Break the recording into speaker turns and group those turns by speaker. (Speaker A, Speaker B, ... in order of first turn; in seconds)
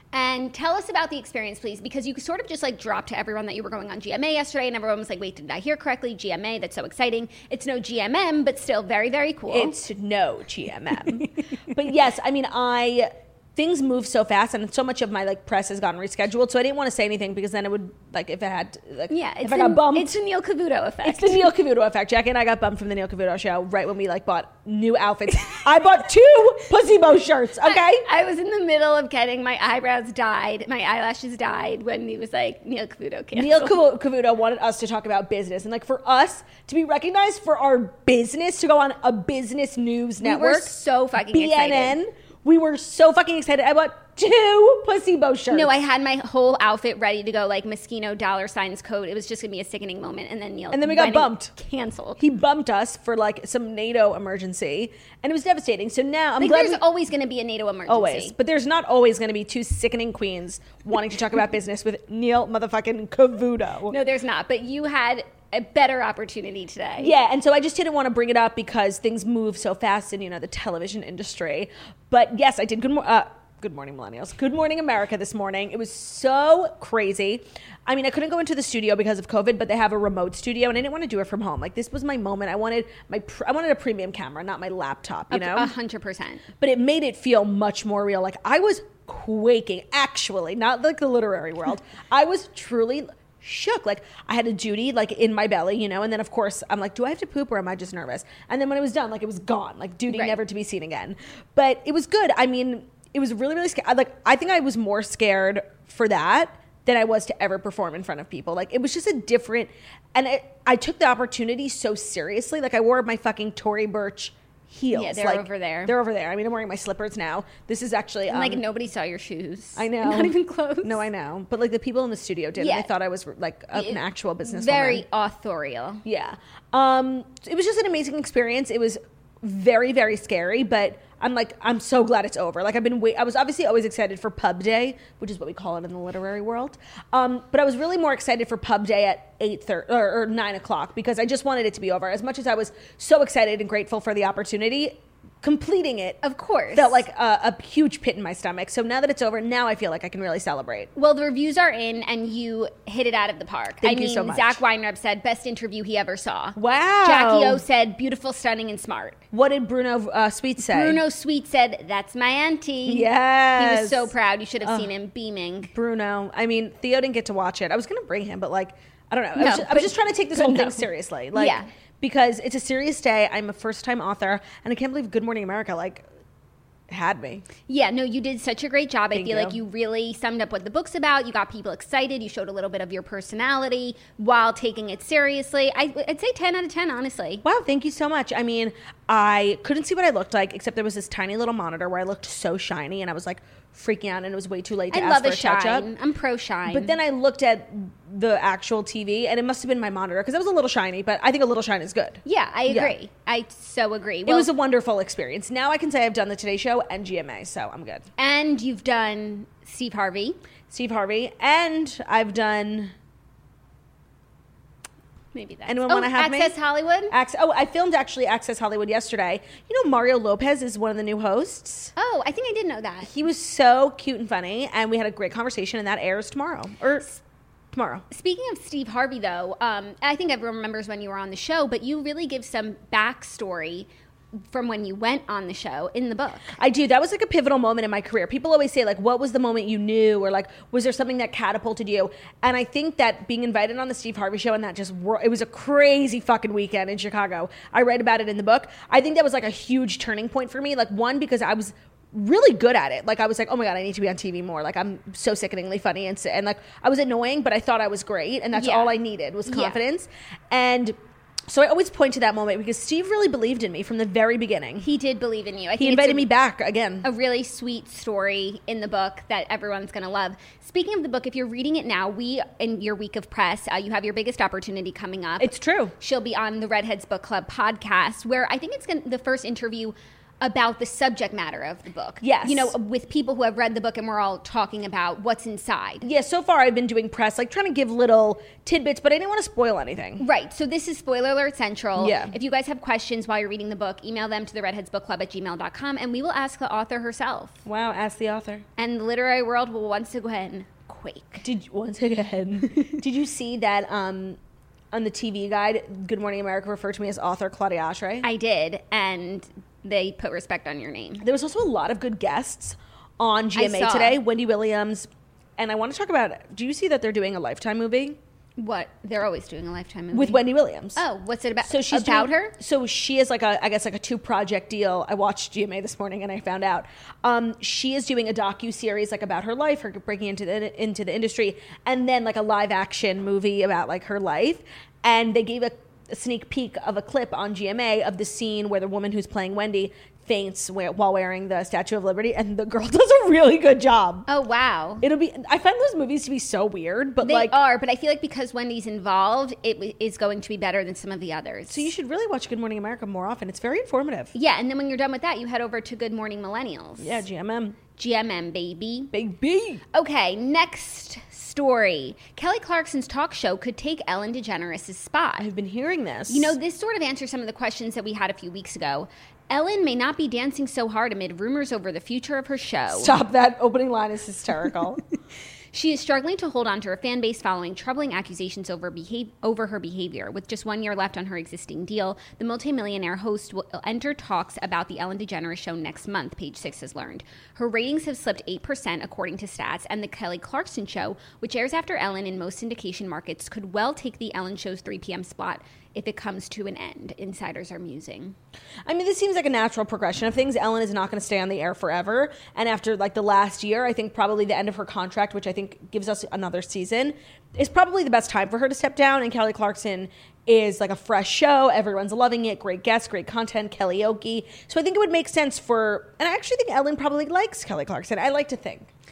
Speaker A: 0.1-9.7, 19.1-21.5, 27.6-33.8, 40.2-42.0, 45.5-52.2, 56.4-58.4, 63.9-67.1, 85.3-86.4, 100.1-100.4, 114.9-116.0, 118.3-121.0, 122.6-122.9, 123.7-126.0, 146.2-147.0, 150.9-159.2, 160.6-165.7, 169.4-171.7, 177.7-187.4, 194.9-196.9, 202.2-204.5, 208.2-210.4, 215.3-217.1, 222.0-223.1, 228.1-233.9, 234.5-236.5, 258.5-259.8, 264.8-266.3, 267.0-286.1, 290.2-297.6, 298.8-301.4, 308.2-311.2, 313.6-314.2, 318.6-322.6, 344.3-345.1, 347.2-351.9, 354.3-357.2, 357.9-359.1, 359.9-365.5, 366.3-373.2, 375.7-398.4
Speaker B: 9.5-20.2, 21.0-28.1, 33.3-45.7, 50.7-51.5, 52.2-56.8, 57.9-64.0, 67.0-85.7, 86.6-118.6, 119.8-125.0, 126.0-146.2, 146.7-150.9, 153.8-154.6, 156.6-157.6, 159.3-161.0, 162.9-164.9, 165.7-176.1, 176.9-177.4, 179.1-179.6, 187.4-195.9, 196.7-202.9, 204.3-208.1, 210.7-212.9, 215.7-216.6, 217.1-221.9, 223.0-227.1, 227.7-228.1, 236.5-261.0, 261.5-264.9, 265.8-267.1, 275.4-275.9, 282.2-282.7, 286.0-290.2, 292.0-292.3, 297.6-298.6, 301.4-304.4, 304.9-308.3, 311.2-318.2, 320.1-321.0, 321.6-344.3, 345.0-347.6, 351.7-354.3, 357.0-357.8, 359.1-359.8, 365.4-366.6, 372.9-375.0, 398.9-418.9